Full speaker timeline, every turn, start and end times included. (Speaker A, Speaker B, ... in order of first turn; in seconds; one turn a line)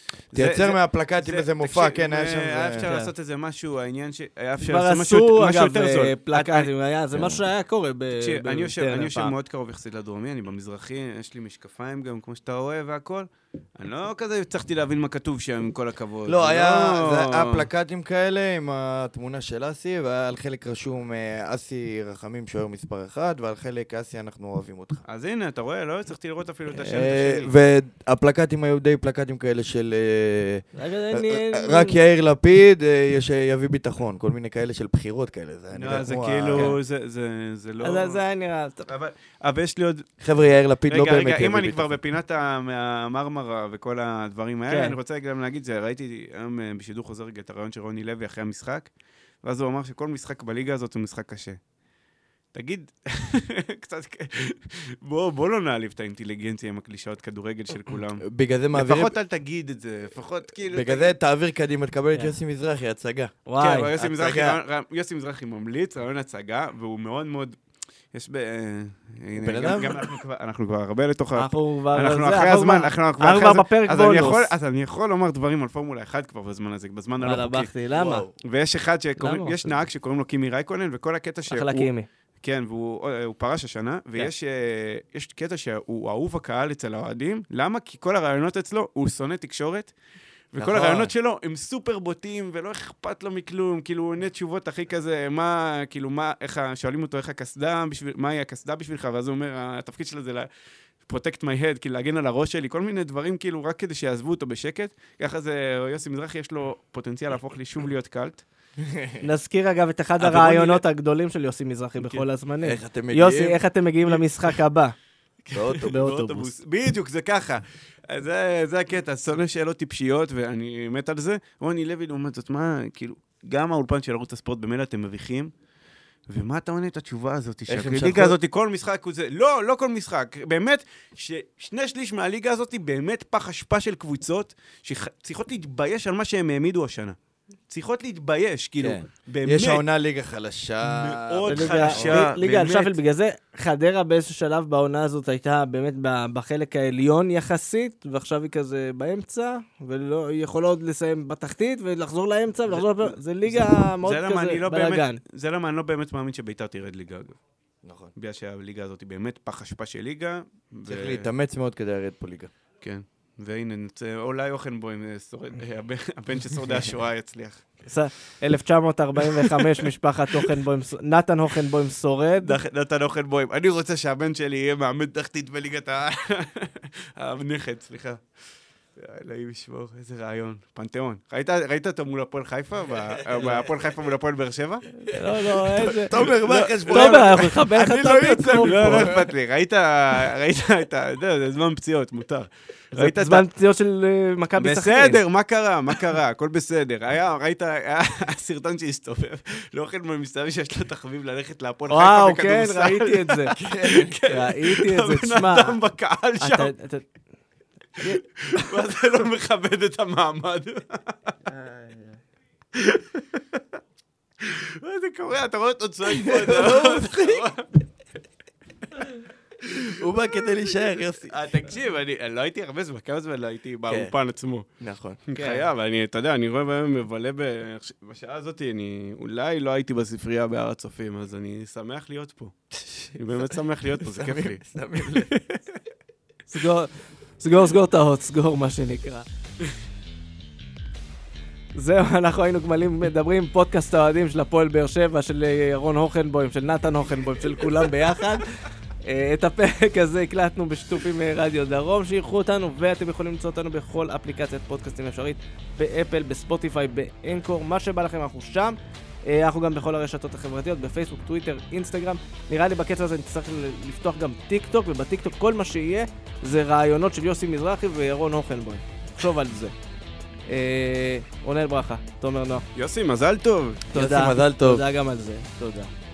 Speaker A: 0.3-6.7
Speaker B: 0.3-2.9
Speaker C: 2.8-3.1
Speaker C: 4.6-9.3
Speaker B: 7.1-7.4
Speaker A: 8.2-17.7
Speaker B: 16.3-25.0
Speaker A: 25.1-27.5
Speaker B: 26.7-36.8
Speaker C: 30.8-32.0
Speaker A: 35.7-38.2
Speaker C: 36.5-36.8
Speaker C: 37.8-38.9
Speaker A: 38.9-40.1
Speaker B: 40.2-42.0
Speaker A: 40.9-48.9
Speaker C: 44.7-45.0
Speaker A: 49.4-51.6
Speaker A: 52.5-61.1
Speaker B: 58.2-59.1
Speaker B: 60.7-63.4
Speaker C: 63.5-63.9
Speaker A: 63.6-67.6
Speaker B: 63.9-64.6
Speaker A: 68.1-77.7
Speaker B: 69.4-70.0
Speaker C: 71.3-74.5
Speaker C: 77.2-78.3
Speaker B: 78.0-78.3
Speaker A: 78.4-81.9
Speaker C: 79.2-79.7
Speaker C: 81.5-82.1
Speaker A: 82.4-89.9
Speaker A: 90.5-100.5
Speaker B: 90.6-91.1
Speaker A: 101.0-108.4
Speaker B: 108.8-109.2
Speaker C: 109.2-114.9
Speaker A: 110.2-110.8
Speaker A: 112.0-112.2
Speaker B: 112.6-113.6
Speaker A: 115.5-125.5
Speaker B: 115.5-115.9
Speaker C: 115.7-116.5
Speaker A: 126.3-137.2
Speaker B: 127.7-128.4
Speaker A: 137.7-139.8
Speaker B: 138.8-142.3
Speaker A: 140.8-143.0
Speaker C: 141.5-155.2
Speaker A: 154.0-157.4
Speaker B: 157.8-158.1
Speaker A: 158.2-161.3
Speaker B: 160.8-162.5
Speaker A: 162.8-167.7
Speaker C: 167.9-172.6
Speaker A: 169.2-170.6
Speaker A: 172.4-178.2
Speaker A: 178.9-184.9
Speaker C: 185.0-186.3
Speaker B: 185.7-189.3
Speaker A: 186.2-193.4
Speaker C: 186.8-189.2
Speaker C: 192.9-195.2
Speaker A: 194.6-206.7
Speaker C: 201.9-203.5
Speaker B: 203.6-204.2
Speaker C: 204.2-205.8
Speaker C: 206.4-207.1
Speaker C: 208.0-208.7
Speaker A: 208.0-211.3
Speaker C: 211.5-212.1
Speaker A: 212.7-213.6
Speaker A: 214.4-217.8
Speaker B: 216.0-217.5
Speaker A: 218.9-220.0
Speaker B: 219.9-221.4
Speaker A: 221.3-224.7
Speaker B: 223.9-224.1
Speaker B: 224.8-225.3
Speaker A: 225.3-232.5
Speaker C: 225.3-225.7
Speaker B: 232.7-235.3
Speaker A: 233.1-234.6
Speaker C: 236.5-239.2
Speaker C: 241.7-269.7
Speaker C: 270.5-272.6
Speaker A: 272.7-273.8
Speaker C: 273.9-275.9
Speaker B: 273.9-274.8